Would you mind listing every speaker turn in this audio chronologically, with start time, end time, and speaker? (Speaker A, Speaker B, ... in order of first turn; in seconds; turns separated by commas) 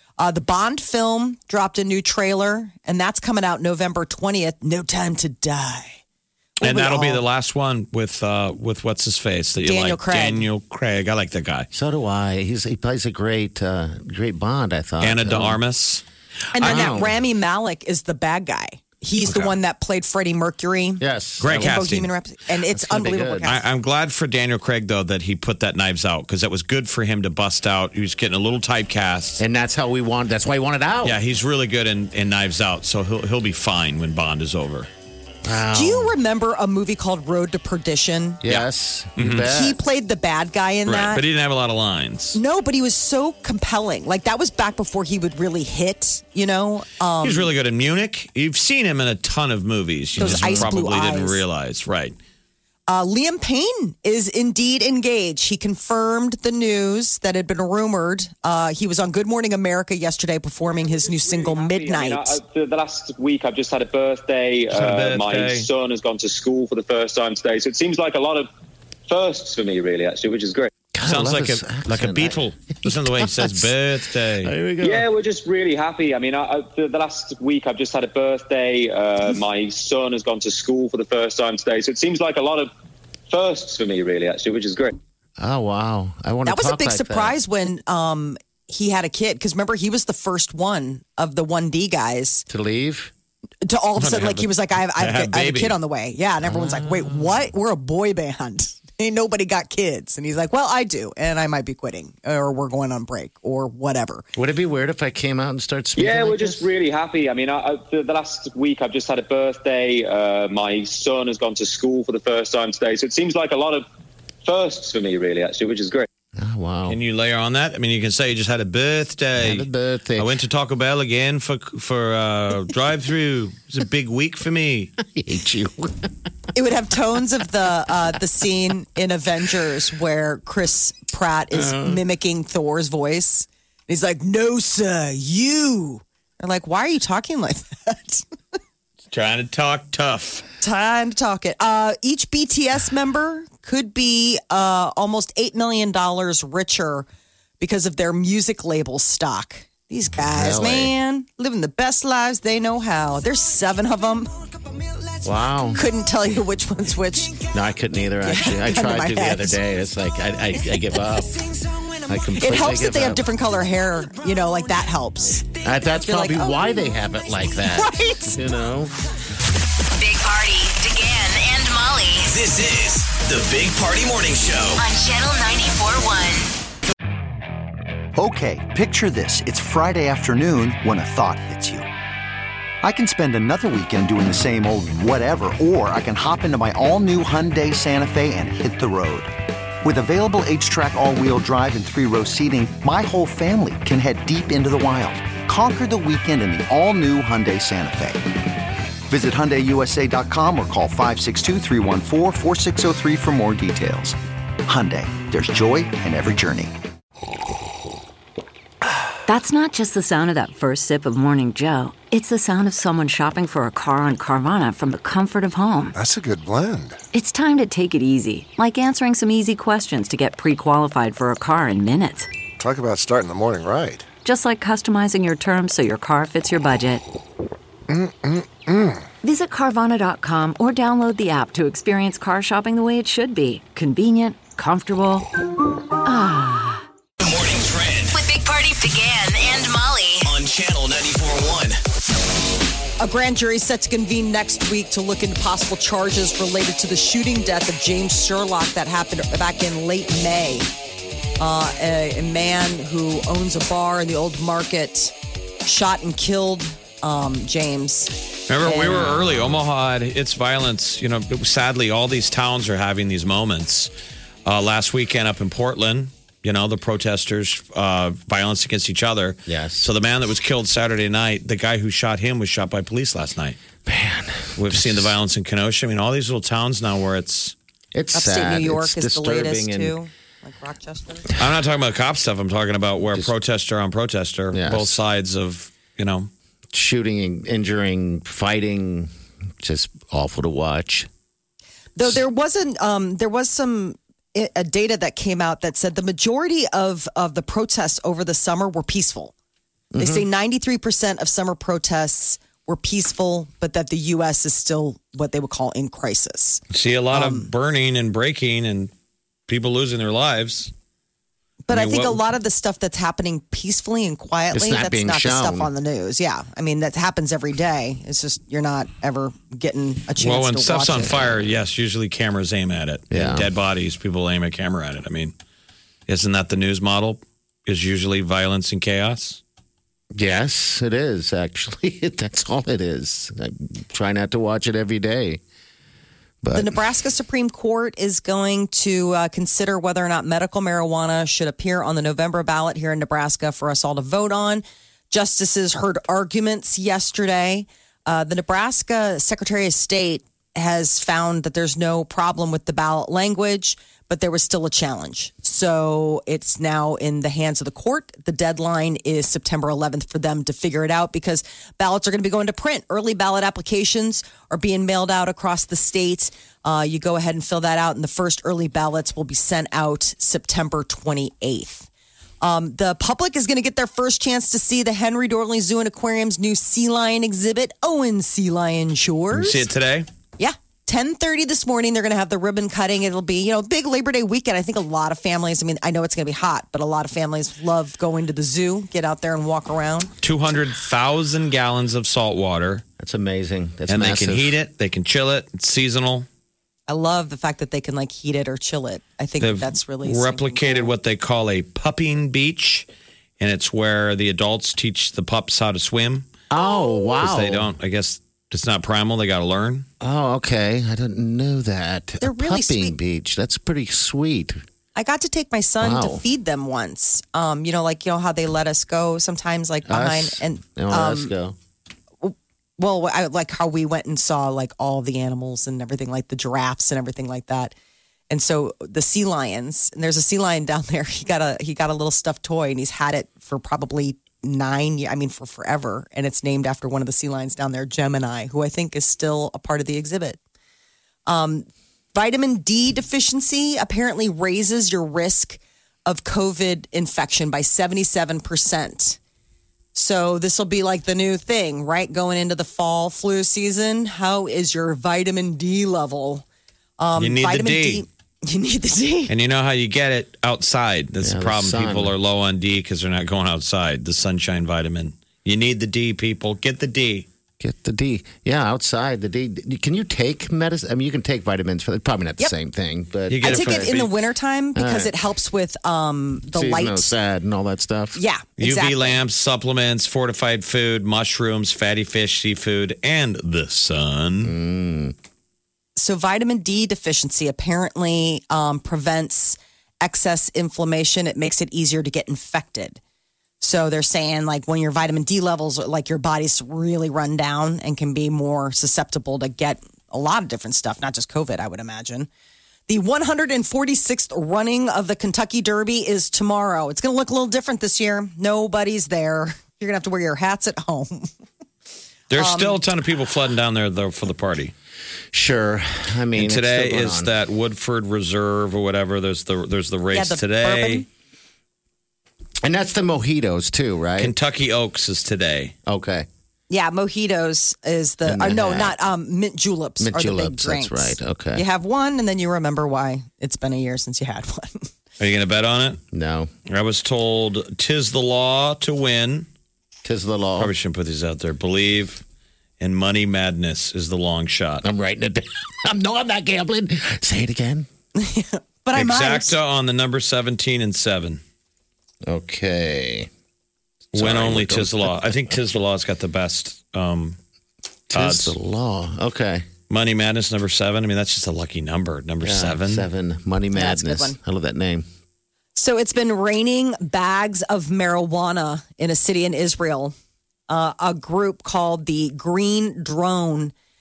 Speaker A: 0.2-6.0, Speaker A: 6.6-7.2, Speaker B: 6.6-11.7, Speaker A: 9.6-10.5, Speaker C: 11.7-15.6, Speaker B: 15.0-16.0, Speaker A: 16.5-23.6, Speaker B: 16.6-16.9, Speaker C: 16.6-17.1, Speaker B: 19.3-19.5, Speaker C: 21.0-21.8, Speaker B: 21.4-22.1, Speaker C: 22.7-23.5, Speaker B: 23.5-29.4, Speaker C: 29.4-31.2, Speaker B: 31.0-34.9, Speaker C: 35.5-36.1, Speaker A: 35.7-38.4, Speaker C: 38.4-39.8, Speaker B: 38.5-39.5, Speaker A: 39.5-41.2, Speaker B: 40.9-42.4, Speaker A: 42.3-47.5, Speaker B: 47.2-52.2, Speaker C: 50.2-50.7, Speaker A: 50.2-51.4, Speaker A: 52.9-62.4, Speaker D: 60.7-68.5, Speaker B: 64.7-65.7, Speaker D: 69.1-70.7, Speaker C: 70.9-73.7, Speaker B: 71.0-74.5, Speaker C: 74.4-75.1, Speaker D: 74.8-82.7, Speaker D: 83.3-84.9, Speaker C: 85.4-87.4, Speaker A: 86.5-92.5, Speaker C: 92.5-93.1, Speaker A: 93.6-104.2, Speaker B: 94.0-95.8, Speaker C: 96.4-97.4, Speaker C: 104.3-106.7, Speaker D: 106.0-113.9, Speaker D: 114.4-116.1, Speaker C: 116.4-117.0, Speaker B: 116.9-124.9, Speaker C: 119.4-120.3, Speaker C: 125.0-126.1, Speaker A: 126.5-138.2, Speaker C: 131.5-132.0, Speaker B: 139.1-140.4, Speaker A: 140.6-147.1, Speaker A: 147.6-154.5, Speaker C: 150.2-150.9, Speaker C: 155.2-155.9, Speaker A: 155.7-157.4, Speaker C: 157.4-161.5, Speaker A: 158.2-159.6, Speaker C: 162.1-163.3, Speaker A: 162.3-166.6, Speaker C: 165.6-168.9, Speaker A: 167.7-168.4, Speaker E: 169.9-172.3, Speaker F: 172.3-174.8, Speaker E: 174.8-176.5, Speaker G: 178.2-181.9, Speaker G: 182.8-198.3, Speaker G: 199.1-206.7, Speaker H: 209.3-216.0, Speaker I: 215.9-217.0, Speaker H: 217.1-222.3, Speaker I: 222.6-224.1, Speaker H: 224.2-227.0, Speaker I: 227.9-229.0, Speaker H: 229.2-235.3, Speaker H: 236.1-236.8, Speaker F: 237.2-238.2, Speaker E: 238.1-240.3, Speaker F: 240.2-241.8, Speaker A: 243.0-250.7, Speaker A: 251.4-258.1, Speaker B: 258.5-263.9, Speaker A: 258.6-259.5, Speaker B: 264.5-273.6, Speaker C: 269.5-269.9, Speaker C: 273.9-275.1, Speaker B: 274.6-277.6, Speaker C: 277.9-279.9, Speaker A: 278.1-281.3, Speaker B: 281.4-286.3, Speaker C: 284.5-285.0, Speaker C: 286.7-291.1, Speaker A: 292.0-299.3, Speaker C: 299.9-300.3, Speaker A: 300.0-307.5, Speaker B: 306.7-308.9, Speaker B: 309.5-310.7, Speaker A: 311.7-321.3, Speaker B: 311.7-312.2, Speaker C: 314.5-315.7, Speaker B: 320.2-325.3, Speaker C: 323.1-323.5, Speaker B: 326.1-329.4, Speaker C: 330.1-335.4, Speaker C: 336.4-336.8, Speaker A: 336.5-371.9, Speaker A: 372.4-379.7, Speaker B: 379.3-380.1, Speaker A: 380.4-390.1, Speaker B: 390.2-392.8, Speaker C: 393.0-394.6, Speaker B: 393.9-396.3, Speaker A: 396.9-400.9, Speaker B: 399.4-402.9, Speaker B: 403.4-406.3, Speaker C: 406.5-407.7, Speaker B: 407.2-409.9, Speaker C: 410.0-414.6, Speaker A: 412.2-412.9, Speaker A: 414.9-421.3, Speaker C: 415.8-416.2, Speaker C: 419.9-421.6, Speaker A: 422.2-427.7, Speaker A: 428.3-440.4, Speaker A: 441.3-449.2, Speaker A: 449.9-456.4, Speaker A: 457.0-459.3, Speaker B: 457.2-458.0, Speaker B: 459.3-467.3, Speaker C: 461.2-462.1, Speaker C: 467.6-473.9, Speaker B: 473.3-474.1, Speaker A: 473.4-477.1, Speaker C: 474.8-475.1, Speaker C: 476.5-478.2, Speaker A: 478.1-479.2, Speaker B: 478.6-484.5, Speaker C: 484.4-485.1, Speaker A: 486.0-493.0, Speaker A: 493.6-502.3, Speaker A: 502.9-511.3, Speaker B: 512.3-514.7, Speaker A: 512.3-512.8, Speaker C: 515.3-517.3, Speaker B: 516.4-521.0, Speaker A: 520.1-521.1, Speaker C: 522.6-524.4, Speaker B: 524.2-525.7, Speaker C: 525.9-526.3, Speaker A: 526.7-534.9, Speaker C: 528.2-529.0, Speaker C: 530.0-531.6, Speaker B: 535.2-536.0, Speaker C: 536.1-536.5, Speaker B: 536.7-539.5, Speaker C: 540.0-540.7, Speaker B: 540.6-542.2, Speaker B: 542.8-544.8, Speaker C: 544.8-547.9, Speaker A: 548.2-549.6, Speaker B: 548.9-551.4, Speaker C: 552.3-553.3, Speaker C: 554.1-555.3, Speaker B: 554.1-557.4, Speaker C: 558.1-559.7, Speaker B: 558.1-558.5, Speaker B: 559.9-563.1, Speaker C: 562.4-565.1, Speaker A: 563.7-564.4, Speaker A: 565.8-570.1, Speaker A: 570.7-573.7